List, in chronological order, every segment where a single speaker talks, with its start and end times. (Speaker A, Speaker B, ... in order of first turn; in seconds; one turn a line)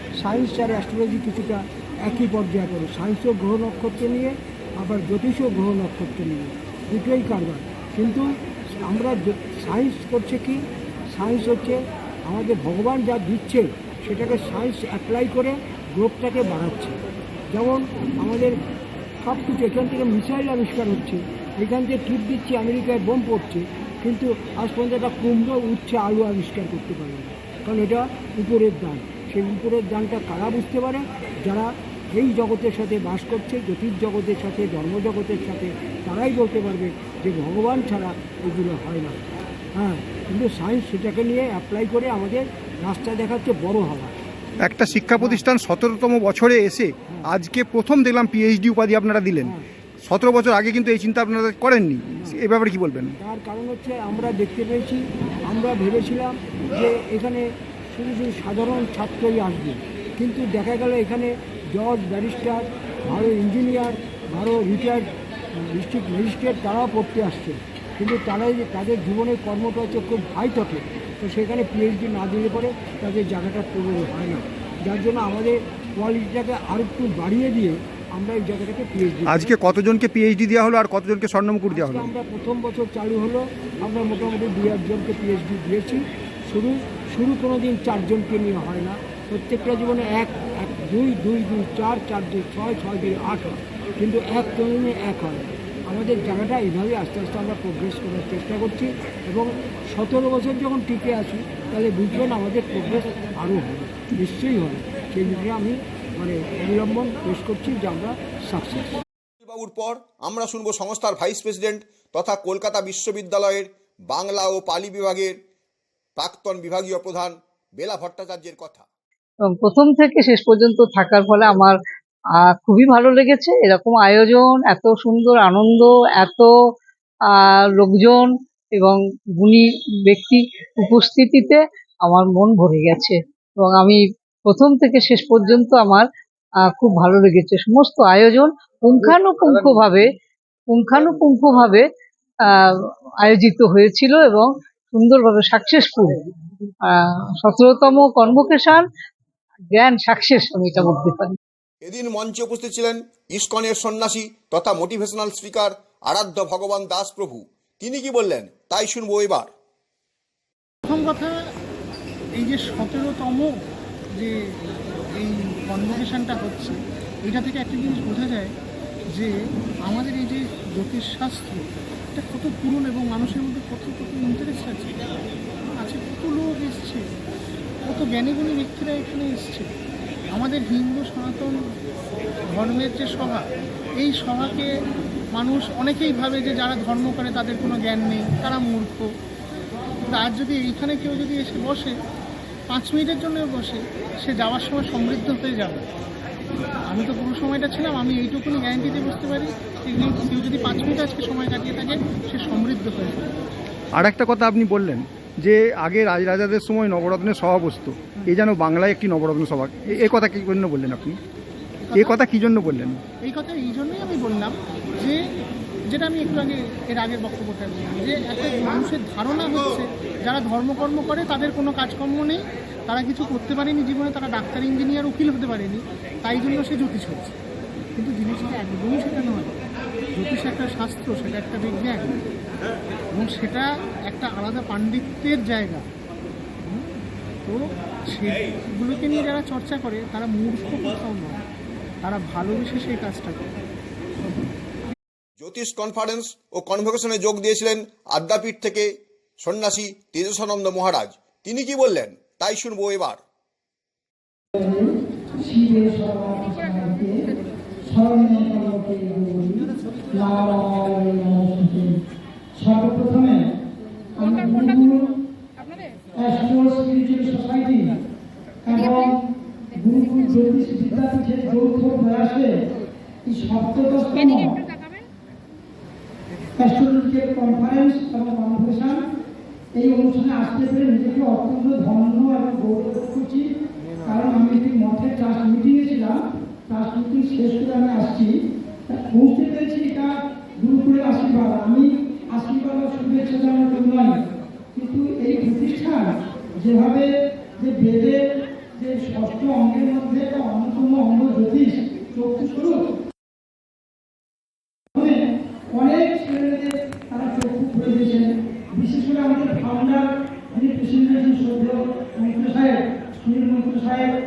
Speaker A: 0.2-8.3
Speaker A: 8.8-10.6
Speaker A: 11.1-16.9
Speaker A: 17.5-18.5
Speaker A: 19.2-39.2
Speaker A: 39.8-44.1
Speaker B: 44.7-53.1
Speaker A: 45.1-45.4
Speaker A: 49.4-49.6
Speaker A: 52.1-52.4
Speaker A: 53.2-65.0
Speaker A: 65.7-79.8
Speaker B: 79.3-82.1
Speaker A: 81.7-109.0
Speaker C: 109.4-115.3
Speaker C: 116.2-118.8
Speaker D: 119.4-121.8
Speaker D: 122.4-126.5
Speaker D: 127.3-136.1
Speaker D: 136.6-140.1
Speaker D: 140.7-141.8
Speaker D: 142.4-142.7
Speaker D: 143.2-146.2
Speaker D: 146.8-148.8
Speaker D: 149.7-151.4
Speaker C: 151.8-159.5
Speaker E: 160.8-161.3
Speaker E: 162.4-163.5
Speaker E: 165.2-168.5
Speaker E: 169.9-175.0
Speaker E: 175.8-177.0
Speaker E: 177.9-179.7
Speaker E: 180.3-181.5
Speaker E: 182.5-183.5
Speaker E: 184.0-184.7
Speaker E: 185.3-189.1
Speaker E: 190.1-191.9
Speaker E: 192.7-195.8
Speaker E: 196.9-203.2
Speaker B: 203.9-211.2
Speaker E: 211.9-212.2
Speaker B: 211.9-213.0
Speaker E: 213.2-215.2
Speaker E: 215.9-227.3
Speaker E: 228.0-229.5
Speaker E: 230.1-232.2
Speaker E: 233.1-235.8
Speaker E: 236.7-236.9
Speaker E: 238.1-241.4
Speaker E: 242.0-243.4
Speaker C: 245.4-248.9
Speaker C: 249.4-253.2
Speaker F: 254.5-257.2
Speaker F: 257.9-261.9
Speaker F: 262.6-263.4
Speaker F: 264.2-265.1
Speaker F: 266.2-267.9
Speaker F: 268.6-269.2
Speaker F: 269.8-272.5
Speaker F: 273.2-274.6
Speaker F: 276.6-279.0
Speaker F: 279.8-283.5
Speaker F: 284.0-288.3
Speaker F: 288.9-294.1
Speaker F: 294.7-298.2
Speaker F: 298.7-302.8
Speaker F: 304.9-314.1